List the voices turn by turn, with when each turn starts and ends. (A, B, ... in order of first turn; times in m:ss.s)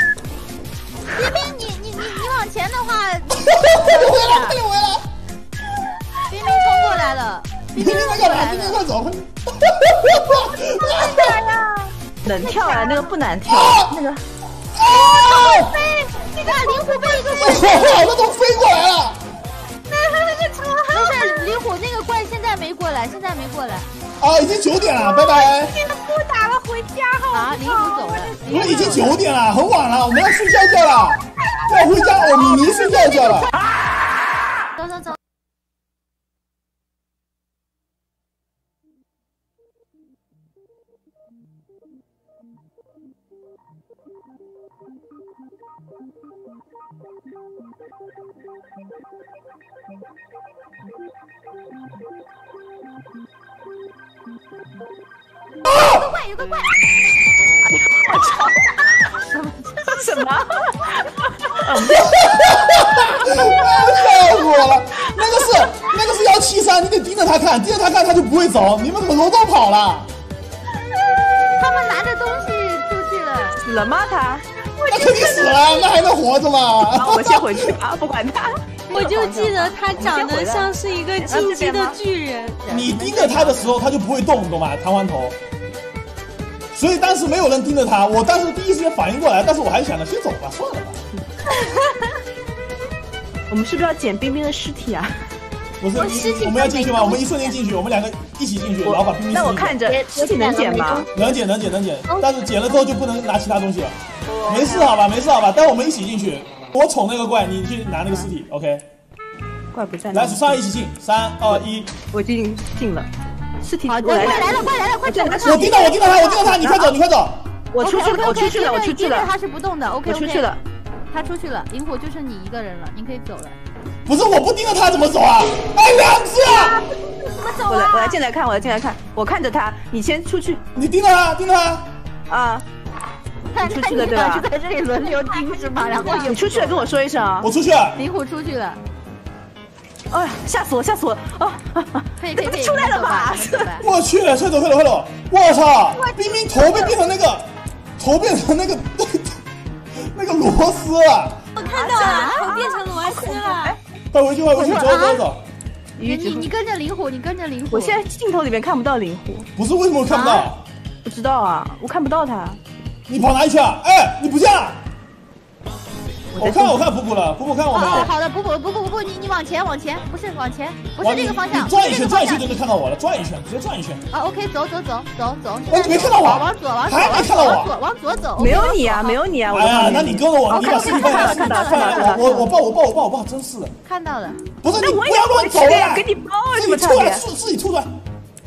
0:01.1-0:04.6 A
0:03.4-0:05.0 B
0:06.3-0:08.8 A
0:07.7-0:11.4 B
0:10.6-0:12.9 C
0:12.2-0:14.2 D
0:12.4-0:13.1 A
0:13.5-0:14.0 B
0:14.7-0:15.8 B
0:14.8-0:18.2 C
0:16.5-0:17.1 A
0:17.2-0:19.2 B
0:19.9-0:21.5 C
0:20.9-0:23.9 A
0:24.2-0:25.8 B
0:25.0-0:28.4 C
0:27.3-0:29.2 A
0:28.5-0:33.5 B
0:31.6-0:33.5 C
0:34.8-0:35.2 A
0:55.8-0:56.7 A
0:57.6-0:58.7 D
0:59.0-1:00.1 A
0:59.9-1:02.6 D
1:01.9-1:10.1 B
1:03.2-1:04.6 D
1:11.6-1:13.6 A
1:13.6-1:14.4 D
1:14.7-1:16.2 C
1:14.9-1:17.7 B
1:16.8-1:20.7 D
1:18.9-1:19.7 A
1:18.9-1:22.6 C
1:21.2-1:22.0 A
1:22.6-1:23.8 A
1:22.7-1:25.4 B
1:26.7-1:31.0 B
1:31.6-1:32.1 C
1:33.5-1:35.2 D
1:35.8-1:40.0 B
1:35.9-1:37.6 C
1:38.8-1:41.1 D
1:40.0-1:41.0 A
1:41.1-1:44.0 B
1:44.3-1:44.9 D
1:44.5-1:48.8 B
1:49.7-1:50.6 D
1:50.1-1:51.9 B
1:52.1-1:53.1 D
1:53.6-1:55.8 D
1:53.9-1:56.5 A
1:55.4-1:57.4 B
1:56.6-1:56.9 D
1:57.7-1:59.3 D
1:57.8-2:00.5 A
2:00.1-2:00.6 D
2:01.1-2:03.6 A
2:04.1-2:06.8 B
2:06.4-2:08.2 C
2:07.7-2:10.6 D
2:10.8-2:11.9 B
2:12.3-2:12.6 D
2:13.5-2:16.9 A
2:13.6-2:17.5 D
2:15.2-2:16.4 C
2:17.4-2:18.0 B
2:18.0-2:18.8 A
2:20.1-2:23.7 D
2:22.2-2:23.9 A
2:23.8-2:29.4 B
2:26.0-2:26.9 C
2:29.9-2:31.4 B
2:31.6-2:33.8 C
2:31.7-2:33.8 D
2:32.0-2:32.4 A
2:34.1-2:35.4 B
2:34.6-2:35.0 D
2:34.6-2:35.3 A
2:36.0-2:36.5 D
2:36.0-2:38.0 A
2:37.7-2:39.5 D
2:39.6-2:40.6 B
2:40.1-2:40.5 A
2:41.0-2:42.6 D
2:43.1-2:44.8 B
2:46.3-2:46.8 D
2:46.4-2:48.1 B
2:47.7-2:52.5 A
2:47.9-2:48.1 D
2:51.0-2:54.0 B
2:54.1-2:59.2 A
2:55.7-2:57.7 B
2:58.4-3:02.5 D
2:59.5-3:03.7 B
3:00.5-3:02.2 A
3:03.8-3:04.4 A
3:04.6-3:07.9 B
3:04.8-3:07.2 D